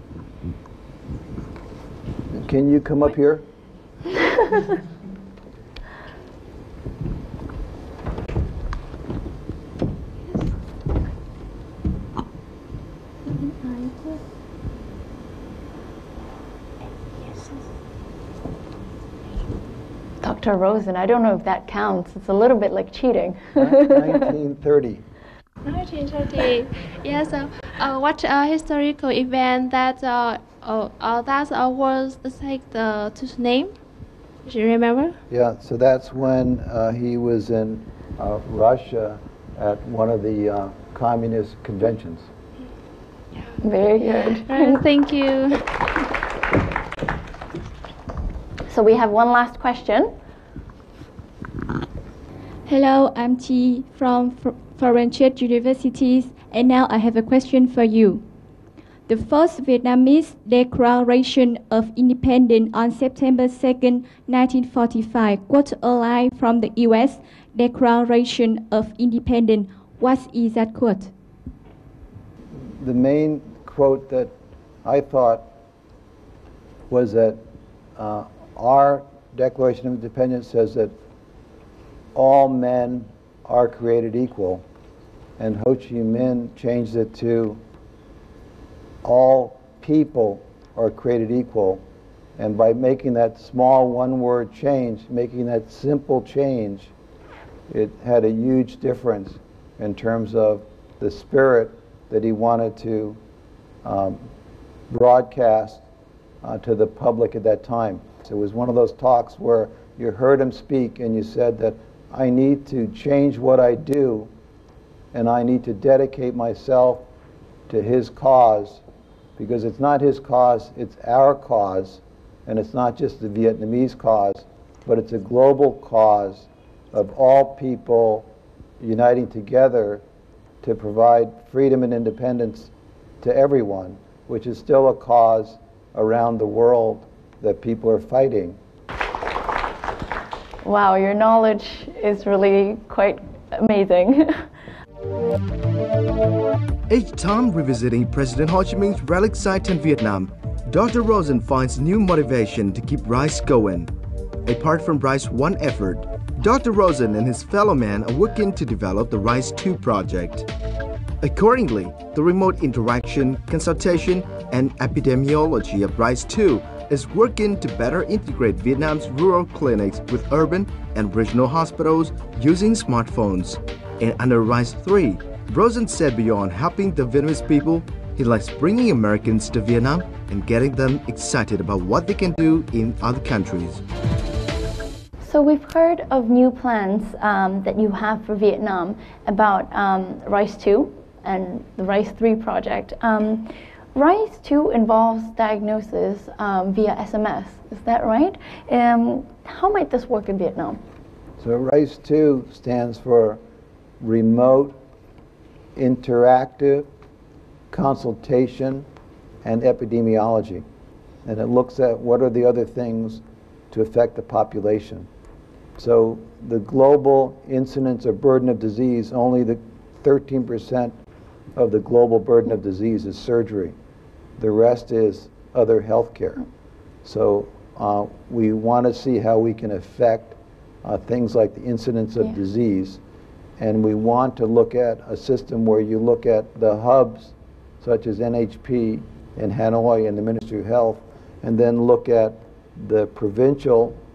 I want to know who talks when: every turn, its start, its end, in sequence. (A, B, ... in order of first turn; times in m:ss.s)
0:02.3-0:03.4 A
0:13.4-0:14.2 B
0:20.2-0:24.2 C
0:23.6-0:25.0 A
0:25.6-0:33.7 B
0:34.4-0:35.2 B
0:35.3-0:42.3 A
0:43.6-0:44.8 C
0:44.4-0:45.7 B
0:48.7-0:50.1 C
0:52.6-0:58.2 D
0:59.1-1:11.1 D
1:12.6-1:14.3 A
1:14.8-1:15.5 A
1:16.9-1:17.4 A
1:18.0-1:20.9 A
1:22.1-1:24.6 A
1:25.4-1:27.6 A
1:29.0-1:31.8 A
1:32.4-1:36.9 A
1:37.7-1:43.2 A
1:43.8-1:44.2 A
1:44.9-1:45.8 A
1:46.4-1:54.3 A
1:55.1-1:57.0 A
1:57.7-1:58.8 A
1:59.4-2:08.3 A
2:08.8-2:10.0 A
2:10.6-2:18.6 A
2:20.6-2:24.5 C
2:26.9-2:33.9 E
2:34.4-2:40.5 E
2:41.2-3:03.8 E
3:05.2-3:20.8 C
3:21.4-3:23.4 A
3:24.0-3:24.8 A
3:25.7-3:26.9 A
3:27.7-3:28.9 A
3:29.4-3:30.6 A
3:31.2-3:35.1 A
3:35.8-3:40.9 A
3:41.6-3:43.7 A
3:44.4-3:46.4 A
3:47.0-3:53.0 A
3:53.6-4:04.0 A